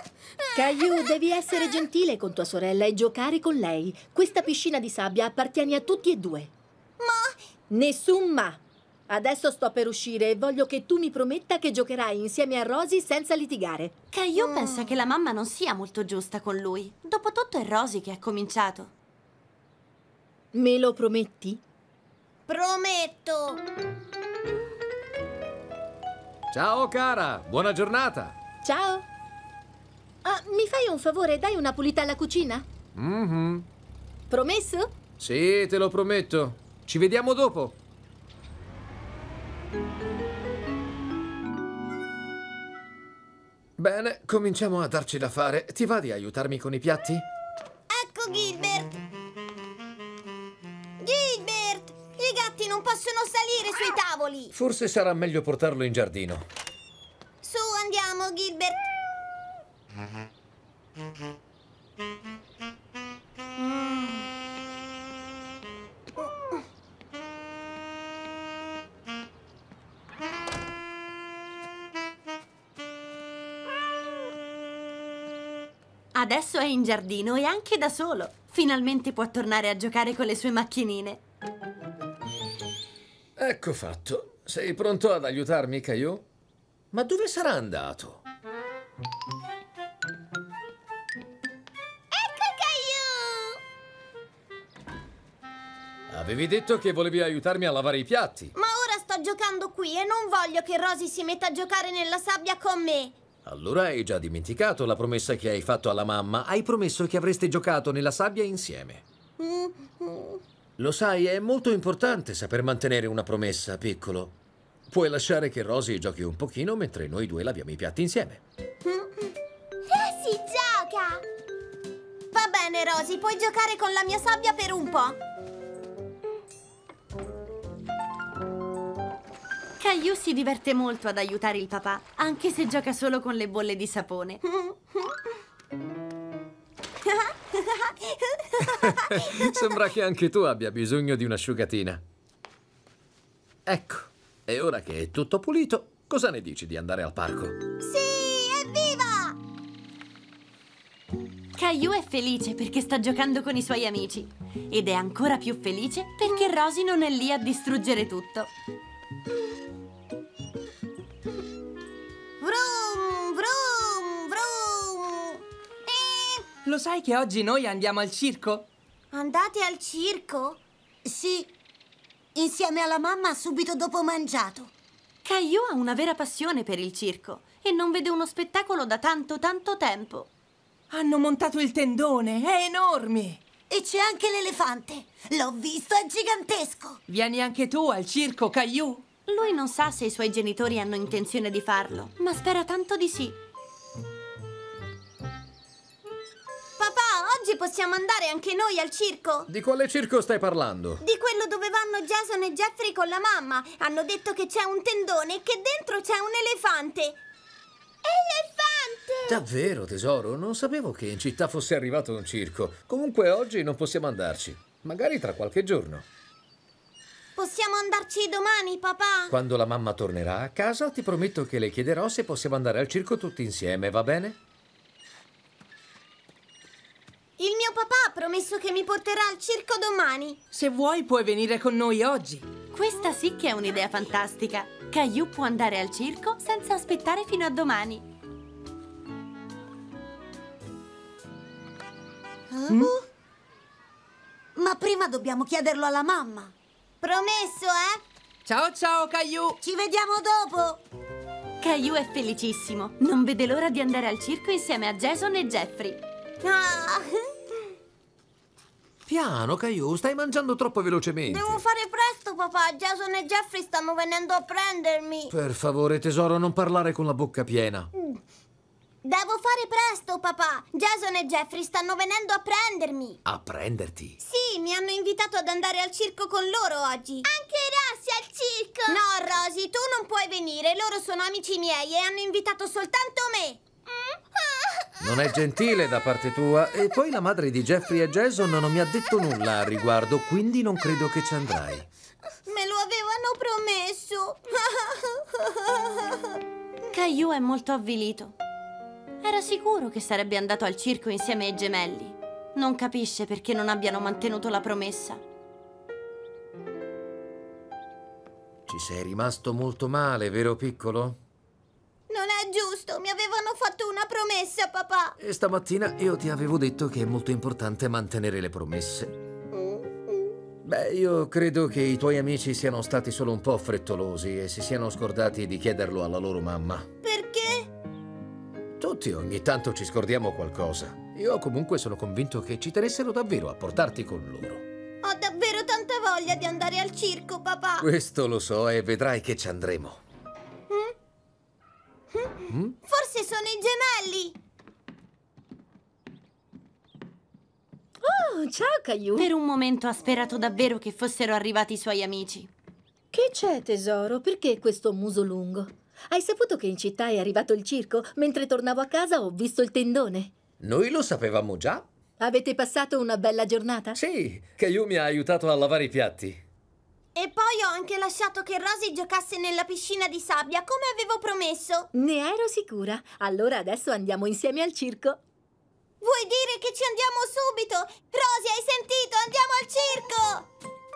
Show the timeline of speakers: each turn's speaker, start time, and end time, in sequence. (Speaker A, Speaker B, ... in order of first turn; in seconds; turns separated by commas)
Speaker A: 0.5-6.5, Speaker B: 7.0-7.4, Speaker A: 7.7-13.9, Speaker C: 14.1-18.9, Speaker A: 20.5-21.6, Speaker B: 22.5-23.6, Speaker D: 26.5-28.4, Speaker A: 28.6-29.1, Speaker A: 30.2-32.7, Speaker D: 33.0-33.7, Speaker A: 34.3-35.0, Speaker D: 35.2-37.8, Speaker D: 43.8-47.3, Speaker B: 47.9-49.0, Speaker B: 51.0-54.5, Speaker D: 54.5-56.5, Speaker B: 57.4-58.9, Speaker B: 63.6-64.2, Speaker C: 76.1-81.2, Speaker D: 83.4-86.3, Speaker D: 86.9-88.2, Speaker B: 92.1-93.6, Speaker D: 96.1-98.5, Speaker B: 98.5-103.2, Speaker D: 103.5-109.0, Speaker B: 109.4-110.4, Speaker D: 110.8-114.4, Speaker D: 114.9-118.4, Speaker B: 118.8-119.3, Speaker B: 119.9-121.2, Speaker B: 122.3-125.2, Speaker C: 129.8-134.4, Speaker B: 134.4-135.2, Speaker B: 137.1-139.3, Speaker D: 138.6-142.0, Speaker D: 143.7-147.7, Speaker B: 147.8-149.4, Speaker C: 151.6-158.5, Speaker B: 162.4-166.5, Speaker E: 166.7-168.7, Speaker B: 169.1-170.6, Speaker F: 171.1-171.5, Speaker F: 172.3-174.7, Speaker C: 175.2-180.3, Speaker E: 180.9-183.4, Speaker F: 183.7-187.0, Speaker E: 187.1-189.1, Speaker C: 189.3-193.4, Speaker B: 196.8-199.5, Speaker D: 199.5-201.0, Speaker B: 201.0-207.2, Speaker B: 208.0-209.4, Speaker D: 209.2-216.1, Speaker B: 217.4-219.3, Speaker D: 219.3-224.4, Speaker B: 227.4-230.4, Speaker E: 230.5-232.5, Speaker C: 232.7-238.1, Speaker F: 242.5-243.0, Speaker E: 242.7-243.0, Speaker F: 244.6-246.5, Speaker B: 247.0-248.0, Speaker E: 248.4-249.6, Speaker F: 249.6-250.8, Speaker C: 251.6-256.0, Speaker B: 256.4-257.7, Speaker D: 259.1-261.6, Speaker B: 261.3-265.3, Speaker D: 265.3-267.9, Speaker B: 269.0-273.2, Speaker D: 273.2-274.2, Speaker B: 274.2-283.6, Speaker D: 285.0-291.9, Speaker B: 292.5-296.3, Speaker C: 296.9-298.4, Speaker C: 299.2-305.2, Speaker D: 308.7-311.2, Speaker B: 312.1-315.2, Speaker D: 315.2-319.2, Speaker B: 319.5-320.3, Speaker D: 320.6-326.9, Speaker B: 327.0-327.7, Speaker D: 328.8-334.7, Speaker B: 335.0-337.9, Speaker D: 337.8-340.0, Speaker B: 342.1-344.4, Speaker D: 342.5-342.8, Speaker A: 348.0-349.3, Speaker C: 349.2-352.5, Speaker A: 353.1-360.3, Speaker D: 360.6-361.9, Speaker A: 362.2-364.0, Speaker D: 363.9-366.4, Speaker B: 367.1-371.9, Speaker A: 371.9-375.2, Speaker B: 376.0-380.5